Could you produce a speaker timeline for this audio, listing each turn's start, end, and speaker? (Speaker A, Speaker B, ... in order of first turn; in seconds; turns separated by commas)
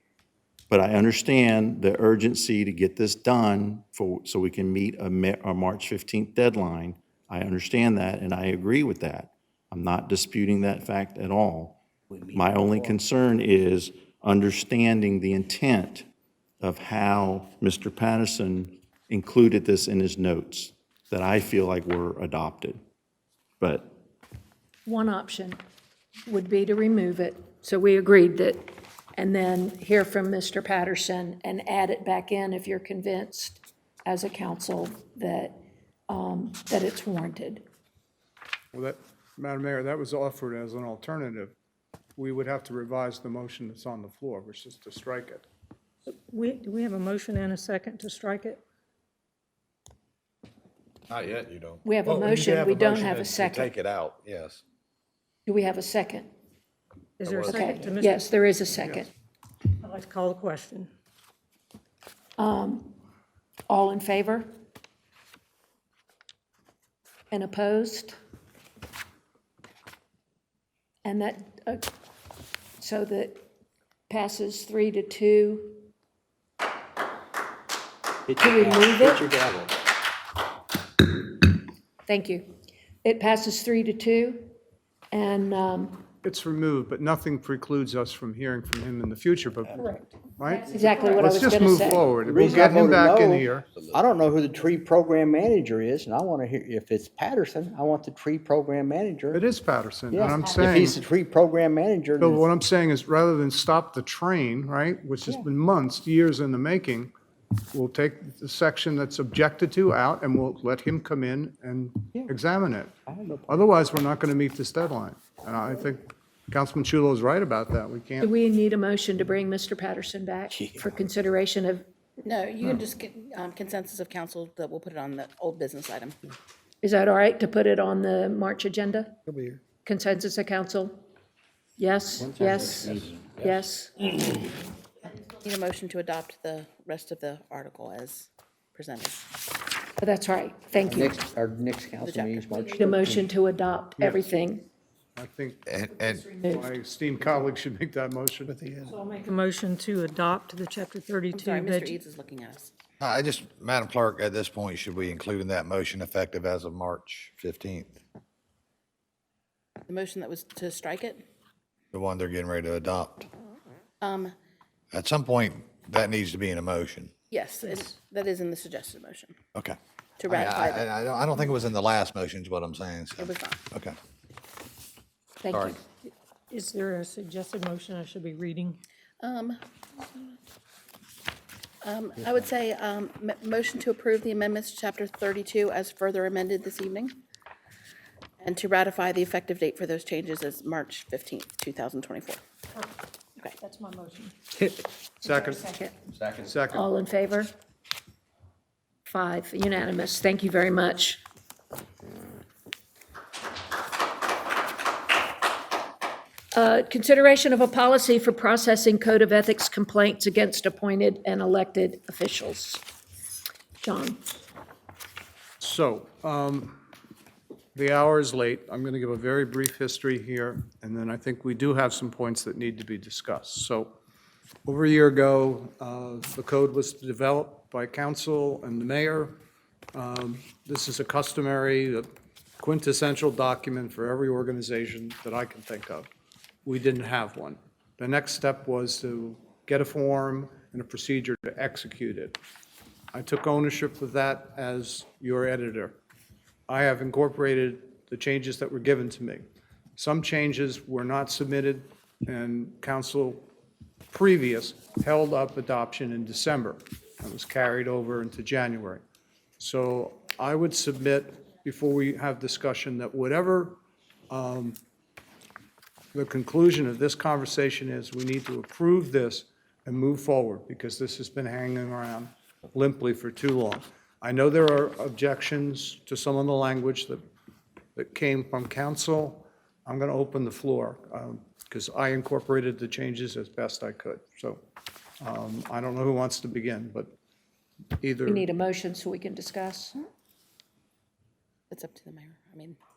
Speaker A: 0.7-16.1, Speaker A: 16.6-22.8, Speaker A: 23.6-23.9, Speaker B: 24.9-25.6, Speaker B: 26.2-35.6, Speaker B: 36.1-37.6, Speaker C: 38.7-41.5, Speaker C: 42.2-45.5, Speaker D: 46.1-48.6, Speaker E: 51.1-54.6, Speaker B: 51.8-53.7, Speaker B: 55.5-56.3, Speaker D: 57.2-58.2, Speaker E: 57.2-57.9, Speaker B: 57.4-59.1, Speaker D: 59.8-60.9, Speaker B: 62.4-63.0, Speaker B: 63.7-64.5, Speaker B: 67.3-68.2, Speaker B: 71.0-71.9, Speaker B: 72.8-73.4, Speaker B: 74.1-75.9, Speaker F: 78.3-79.7, Speaker B: 78.4-79.2, Speaker B: 82.0-82.5, Speaker B: 83.0-84.5, Speaker B: 85.1-86.1, Speaker C: 86.2-89.8, Speaker C: 90.4-93.7, Speaker B: 90.6-92.1, Speaker F: 90.7-99.4, Speaker E: 93.7-94.0, Speaker C: 99.3-101.0, Speaker F: 100.1-102.5, Speaker C: 102.2-107.1, Speaker C: 107.7-118.3, Speaker F: 113.1-113.8, Speaker B: 118.2-121.9, Speaker F: 120.6-120.9, Speaker G: 122.2-126.2, Speaker B: 126.8-129.2, Speaker E: 129.3-129.6, Speaker B: 129.8-131.0, Speaker B: 131.8-134.1, Speaker F: 132.2-133.6, Speaker G: 135.1-139.2, Speaker B: 140.0-141.1, Speaker F: 140.8-143.3, Speaker G: 142.0-142.9, Speaker B: 142.8-144.7, Speaker C: 144.0-144.3, Speaker C: 145.2-145.7, Speaker E: 145.7-146.3, Speaker B: 146.1-146.7, Speaker C: 146.4-148.6, Speaker E: 148.5-148.9, Speaker D: 148.9-152.0, Speaker G: 151.3-152.7, Speaker E: 153.0-158.0, Speaker G: 159.9-161.2, Speaker E: 161.9-163.3, Speaker G: 164.0-164.3, Speaker E: 164.9-167.1, Speaker G: 167.3-169.3, Speaker G: 170.2-170.9, Speaker E: 170.3-173.9, Speaker G: 173.2-173.6, Speaker B: 175.4-175.8, Speaker E: 175.5-175.8, Speaker D: 176.5-178.8, Speaker G: 179.2-180.3, Speaker G: 181.8-187.2, Speaker G: 188.4-192.4, Speaker B: 193.6-194.1, Speaker D: 193.9-194.3, Speaker C: 195.2-195.7, Speaker B: 195.2-196.0, Speaker C: 196.3-196.9, Speaker B: 196.7-197.5, Speaker B: 199.1-201.2, Speaker B: 206.5-212.8, Speaker B: 213.8-214.2, Speaker C: 215.6-216.8, Speaker C: 217.7-223.9, Speaker C: 224.7-229.4, Speaker C: 229.9-232.1, Speaker C: 232.6-236.1, Speaker C: 236.7-242.4, Speaker C: 243.1-245.9, Speaker C: 246.7-249.4, Speaker C: 250.0-253.5, Speaker C: 254.1-259.0, Speaker C: 259.6-264.8, Speaker C: 266.1-277.2, Speaker C: 277.9-284.6, Speaker C: 285.2-287.1, Speaker C: 288.0-288.5, Speaker B: 288.2-290.0, Speaker G: 291.7-292.8